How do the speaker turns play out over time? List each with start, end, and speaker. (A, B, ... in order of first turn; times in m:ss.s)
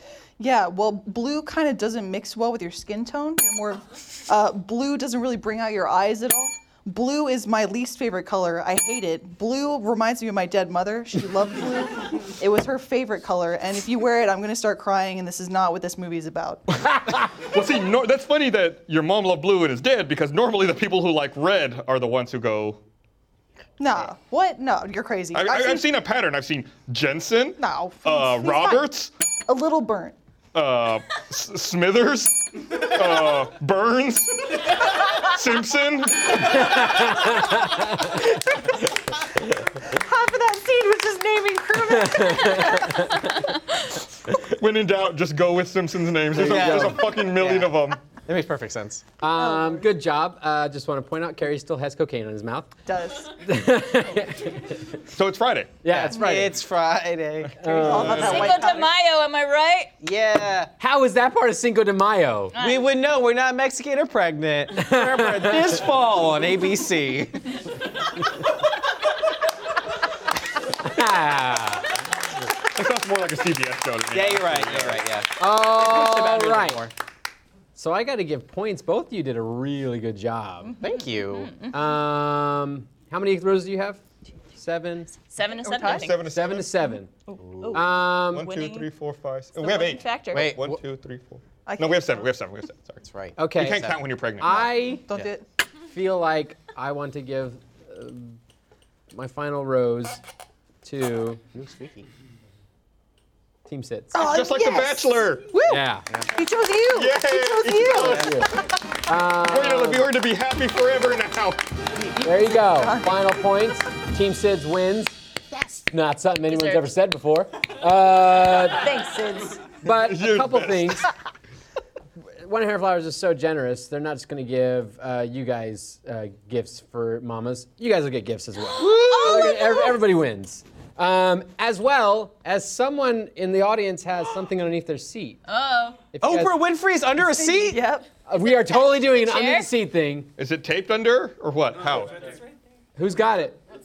0:00.4-0:16.7 A
0:17.1-0:22.8 B
0:23.8-0:25.9 A
0:25.3-0:29.1 B
0:27.6-0:28.9 A
0:29.5-0:30.2 A
0:30.5-0:36.9 B
0:36.8-0:37.8 C
0:39.8-0:43.3 A
0:42.0-0:43.2 C
0:44.4-0:48.0 B
0:46.3-0:47.1 C
0:46.3-0:49.0 D
0:49.2-0:52.7 C
0:49.4-0:49.8 A
0:52.8-0:53.3 A
0:53.4-0:55.0 C
0:55.2-0:55.8 B
0:55.8-0:56.6 C
0:55.9-0:57.6 D
0:56.1-0:56.4 A
0:57.6-0:58.5 C
0:57.6-0:58.9 A
0:57.7-0:58.6 B
0:58.1-0:59.9 E
1:00.0-1:00.7 D
1:00.8-1:02.5 C
1:02.5-1:02.8 E
1:02.6-1:07.5 D
1:04.8-1:05.8 C
1:10.7-1:11.9 C
1:12.7-1:15.0 B
1:14.1-1:16.9 D
1:15.4-1:16.9 C
1:17.8-1:20.8 C
1:20.8-1:21.7 E
1:20.8-1:21.5 D
1:21.7-1:24.0 C
1:24.5-1:25.1 C
1:25.3-1:26.1 E
1:25.6-1:26.2 A
1:25.9-1:26.8 B
1:26.2-1:27.1 C
1:27.4-1:27.8 D
1:27.6-1:28.9 E
1:27.7-1:28.5 C
1:28.3-1:33.0 B
1:29.6-1:30.5 E
1:30.3-1:30.8 D
1:31.6-1:32.2 A
1:33.1-1:34.0 D
1:33.4-1:35.1 C
1:33.5-1:34.7 B
1:34.4-1:35.4 A
1:35.9-1:38.4 C
1:39.1-1:40.2 C
1:40.8-1:41.4 C
1:41.5-1:42.1 D
1:43.6-1:44.2 C
1:44.1-1:45.8 A
1:44.2-1:45.5 B
1:45.7-1:46.0 C
1:46.3-1:48.3 A
1:46.9-1:48.5 B
1:48.0-1:50.1 C
1:49.4-1:51.7 B
1:52.1-1:53.2 A
1:52.2-1:55.1 C
1:55.5-1:55.8 A
1:55.9-1:58.9 C
1:56.5-1:56.8 E
1:58.8-1:59.7 A
1:59.8-2:01.1 C
2:00.0-2:01.0 B
2:02.4-2:15.4 C
2:08.8-2:09.4 D
2:09.0-2:10.0 E
2:15.5-2:16.0 E
2:16.1-2:16.6 C
2:16.2-2:17.8 D
2:17.4-2:18.1 A
2:18.3-2:20.3 C
2:18.4-2:19.7 E
2:20.4-2:22.2 B
2:23.0-2:23.6 C